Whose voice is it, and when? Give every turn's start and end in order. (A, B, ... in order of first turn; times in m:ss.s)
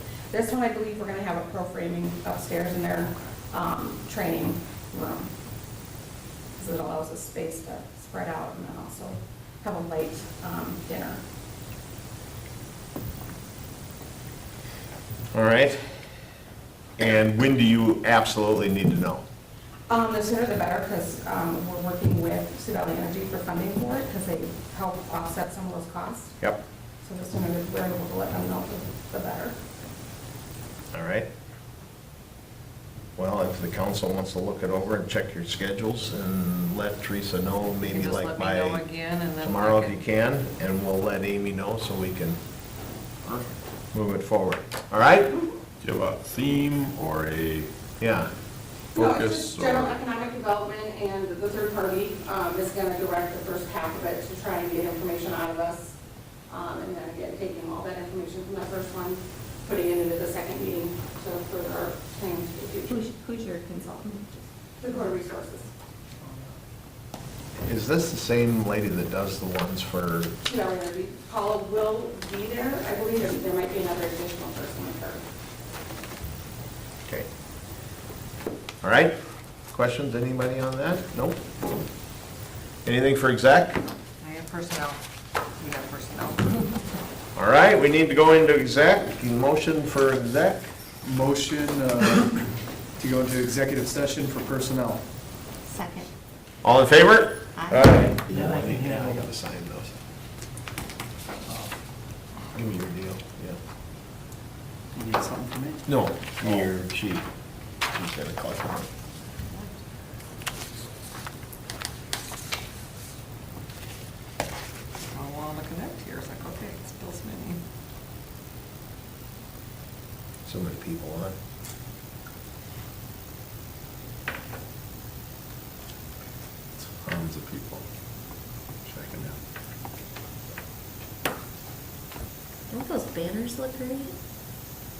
0:00.3-0:05.3 A
0:06.6-0:11.2 A
0:15.3-0:15.8 B
0:17.0-0:19.2 B
0:19.9-0:26.4 A
0:27.0-0:29.6 A
0:30.9-0:31.3 B
0:33.2-0:38.8 B
0:37.7-0:40.0 C
0:39.4-0:42.4 B
0:43.9-0:45.4 B
0:45.8-0:47.7 D
0:48.0-0:48.3 B
0:48.9-0:55.9 A
0:48.9-0:50.0 D
0:56.5-1:03.1 A
1:02.9-1:04.4 E
1:04.8-1:05.7 A
1:07.6-1:10.3 B
1:10.4-1:15.2 A
1:18.8-1:19.2 B
1:19.7-1:21.4 B
1:22.8-1:23.8 B
1:24.2-1:25.0 C
1:25.6-1:26.8 C
1:27.4-1:30.7 B
1:31.0-1:35.0 F
1:35.7-1:36.1 E
1:36.6-1:39.9 B
1:37.6-1:38.6 E
1:37.7-1:39.3 F
1:42.5-1:43.6 B
1:44.9-1:45.8 F
1:45.8-1:47.2 B
1:47.9-1:48.9 B
1:49.5-1:49.8 C
1:55.1-1:57.6 C
2:00.4-2:01.4 B
2:07.0-2:07.8 D
2:08.8-2:09.4 D
2:12.7-2:14.1 E